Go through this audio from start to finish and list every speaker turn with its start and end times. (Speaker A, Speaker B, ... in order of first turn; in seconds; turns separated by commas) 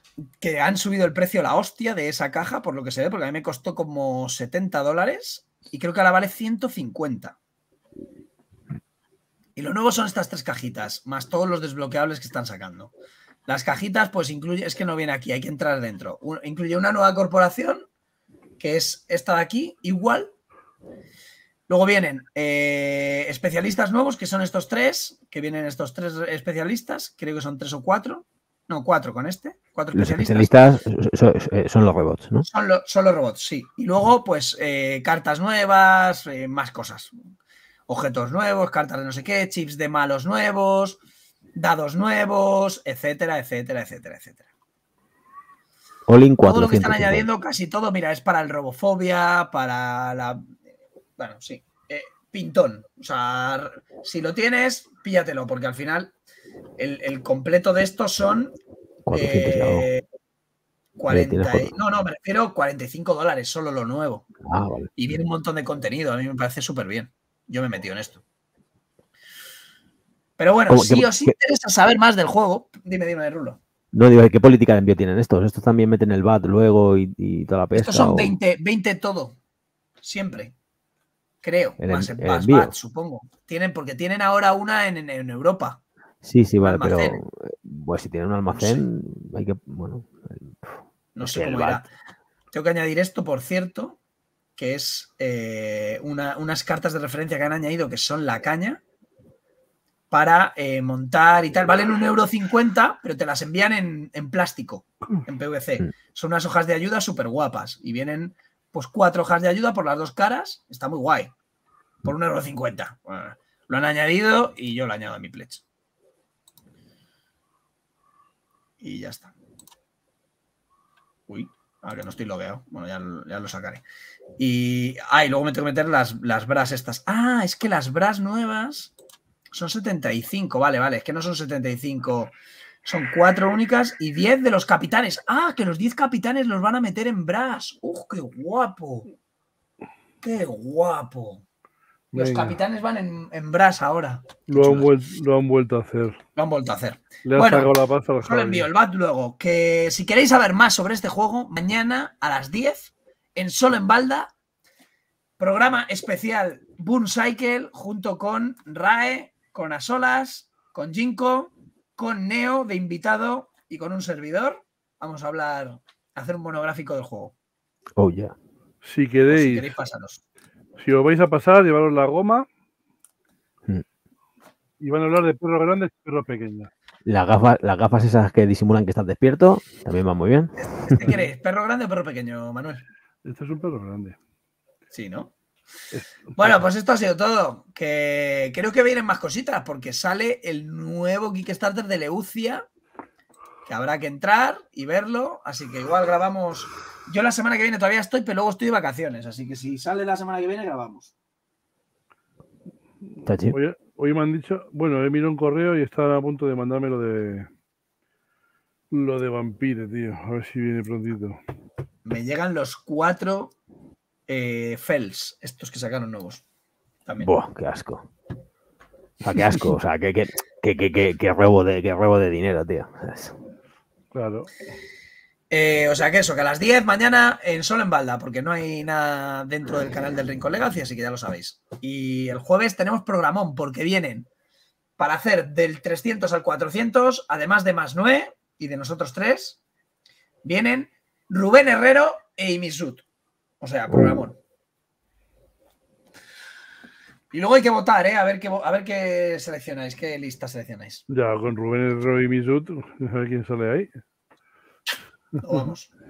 Speaker A: 0.4-7.3, Speaker A: 9.6-12.9, Speaker A: 13.5-17.8, Speaker A: 18.6-20.3, Speaker A: 21.7-30.5, Speaker B: 29.9-32.5, Speaker A: 32.5-37.1, Speaker A: 37.9-41.0, Speaker A: 41.5-44.5, Speaker B: 46.1-47.2, Speaker A: 46.4-50.5, Speaker A: 51.2-56.1, Speaker A: 56.8-58.5, Speaker B: 59.0-59.9, Speaker A: 59.1-60.0, Speaker A: 61.0-64.2, Speaker B: 61.1-61.7, Speaker B: 64.4-64.9, Speaker A: 65.0-68.2, Speaker A: 70.4-73.6, Speaker B: 70.7-71.3, Speaker B: 73.9-78.3, Speaker A: 77.7-79.3, Speaker A: 80.0-80.5, Speaker A: 81.4-85.8, Speaker B: 81.8-82.7, Speaker B: 86.2-91.9, Speaker A: 86.6-87.2, Speaker A: 88.5-88.8, Speaker A: 91.2-91.9, Speaker A: 92.5-94.0, Speaker A: 94.6-98.8, Speaker A: 100.1-111.3, Speaker A: 112.0-115.6, Speaker A: 118.8-119.3, Speaker A: 121.3-123.8, Speaker A: 124.4-128.9, Speaker A: 129.5-132.3, Speaker A: 132.8-139.1, Speaker A: 140.2-141.4, Speaker C: 142.1-142.6, Speaker A: 142.1-144.9, Speaker C: 144.5-146.2, Speaker A: 146.3-147.7, Speaker C: 147.2-148.7, Speaker A: 148.2-154.3, Speaker A: 155.4-167.3, Speaker B: 168.0-168.3, Speaker C: 168.8-169.8, Speaker A: 169.3-170.2, Speaker C: 170.8-172.4, Speaker C: 174.8-176.7, Speaker B: 177.1-181.2, Speaker A: 180.6-182.8, Speaker C: 183.2-184.2, Speaker A: 184.9-185.3, Speaker C: 185.9-186.6, Speaker A: 186.4-192.7, Speaker A: 193.7-201.1, Speaker B: 203.2-203.6, Speaker C: 203.5-207.5, Speaker C: 208.9-211.4, Speaker A: 212.0-213.5, Speaker A: 214.3-216.4, Speaker A: 217.1-217.3, Speaker B: 217.2-218.1, Speaker B: 219.2-223.4, Speaker C: 224.1-224.5, Speaker A: 225.5-234.3, Speaker A: 235.0-239.6, Speaker A: 240.4-243.0, Speaker A: 243.6-244.4, Speaker B: 243.9-244.2, Speaker A: 247.3-251.0, Speaker C: 251.1-253.9, Speaker A: 255.4-255.9